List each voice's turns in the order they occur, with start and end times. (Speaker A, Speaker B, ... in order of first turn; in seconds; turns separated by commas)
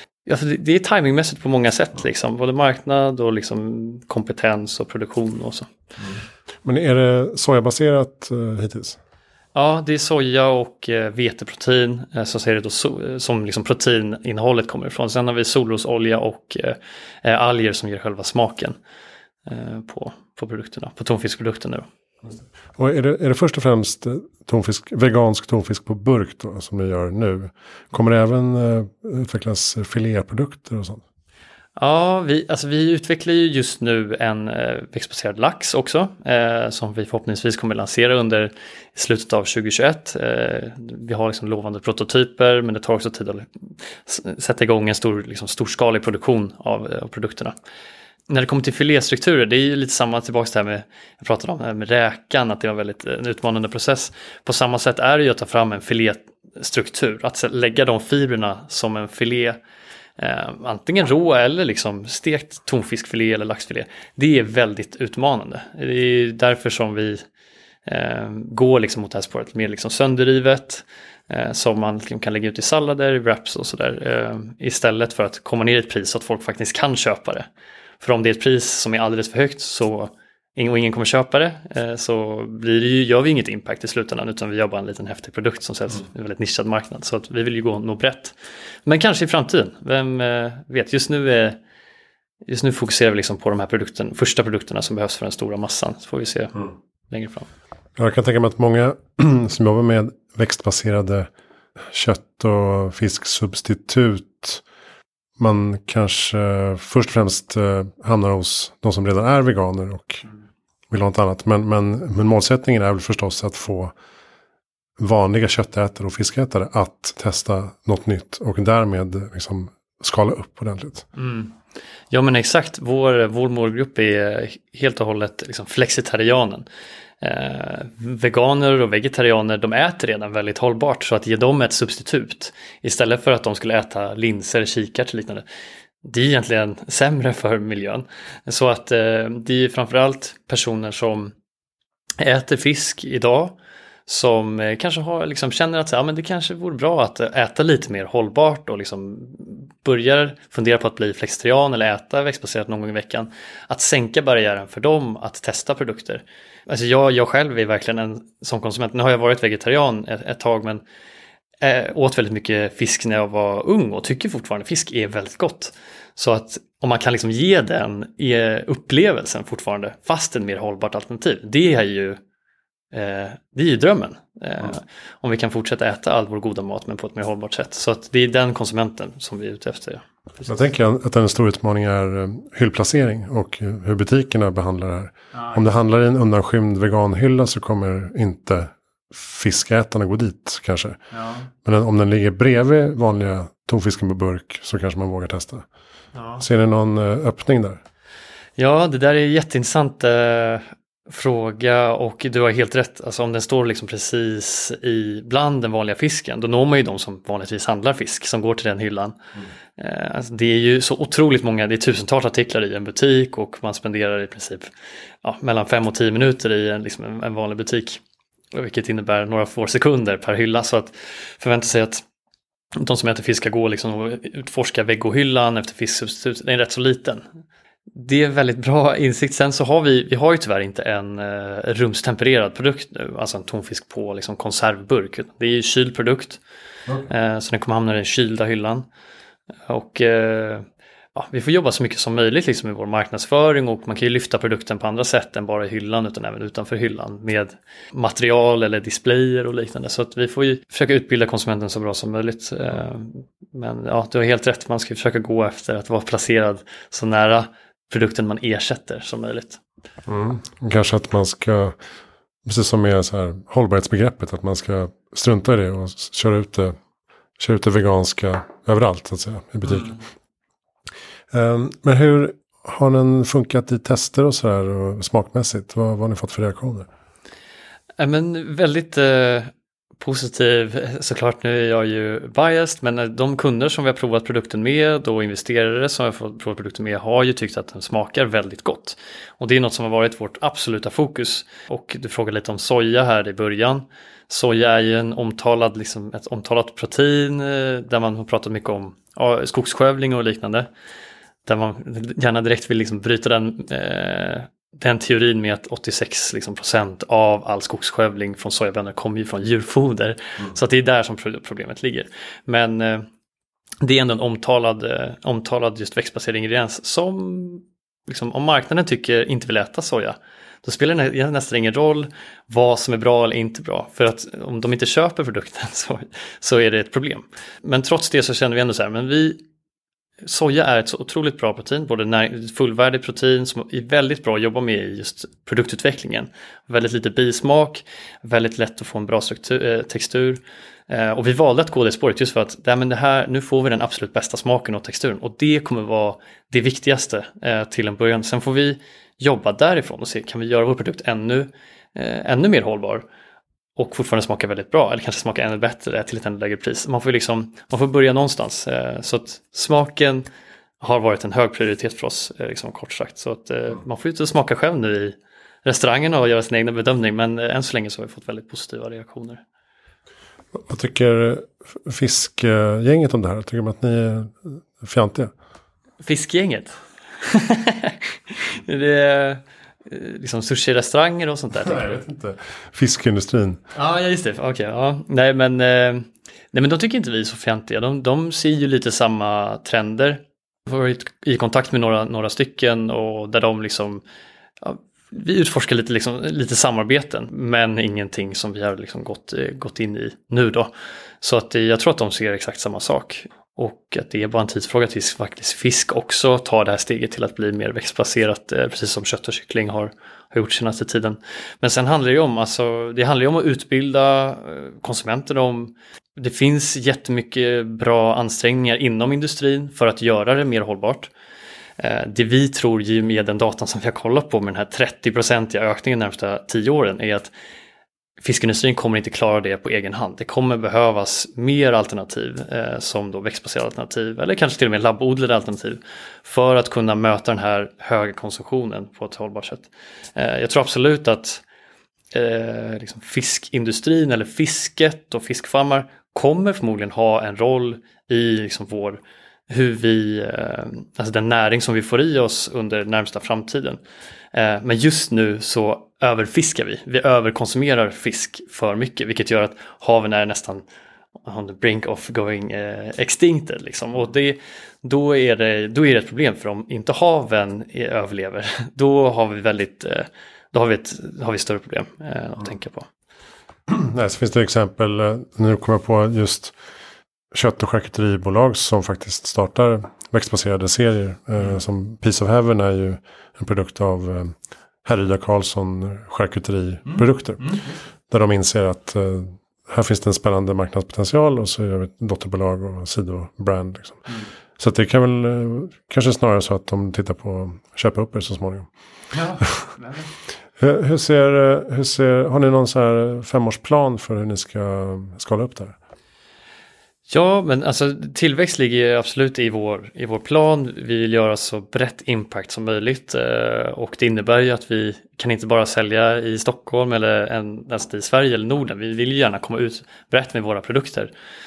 Speaker A: 0.2-5.7, Speaker B: 6.6-9.0, Speaker A: 9.6-18.8, Speaker A: 19.5-21.9, Speaker B: 22.2-31.0, Speaker A: 31.8-43.5, Speaker A: 44.0-47.5, Speaker A: 48.3-59.6, Speaker A: 60.2-67.2, Speaker A: 67.9-77.5, Speaker A: 78.0-91.6, Speaker A: 92.5-97.5, Speaker B: 98.0-101.3, Speaker B: 101.9-104.6, Speaker B: 105.4-110.2, Speaker B: 110.9-113.9, Speaker B: 115.0-121.1, Speaker A: 121.2-121.5, Speaker A: 122.1-126.7, Speaker A: 127.2-135.4, Speaker A: 136.0-141.3, Speaker A: 142.2-160.8, Speaker A: 161.6-172.2, Speaker A: 172.9-180.1, Speaker B: 180.4-191.0, Speaker A: 185.3-185.6, Speaker A: 191.1-191.5, Speaker B: 191.6-195.7, Speaker A: 196.2-196.4, Speaker B: 196.4-197.8, Speaker A: 198.6-209.2, Speaker A: 209.8-214.7, Speaker A: 215.2-218.0, Speaker A: 218.5-222.0, Speaker A: 222.8-227.2, Speaker A: 227.9-236.4, Speaker A: 237.1-238.9, Speaker A: 239.7-259.6, Speaker B: 260.1-261.8, Speaker B: 262.4-266.8, Speaker B: 267.4-270.0, Speaker A: 269.7-270.0, Speaker B: 271.3-276.9, Speaker A: 278.0-300.7, Speaker A: 301.5-313.1, Speaker A: 313.8-329.4, Speaker A: 330.2-353.1, Speaker A: 353.8-360.2, Speaker A: 360.8-369.4, Speaker B: 370.5-375.3, Speaker A: 376.0-382.0, Speaker B: 381.6-383.6, Speaker A: 383.8-394.0, Speaker A: 394.6-421.1, Speaker A: 421.8-427.3, Speaker A: 428.2-441.4, Speaker A: 442.1-453.8, Speaker A: 454.3-460.6, Speaker A: 461.2-472.9, Speaker B: 473.7-476.5, Speaker B: 477.3-494.1, Speaker A: 486.9-487.6, Speaker B: 494.6-498.7, Speaker A: 499.1-500.1, Speaker B: 500.6-505.8, Speaker A: 507.1-521.1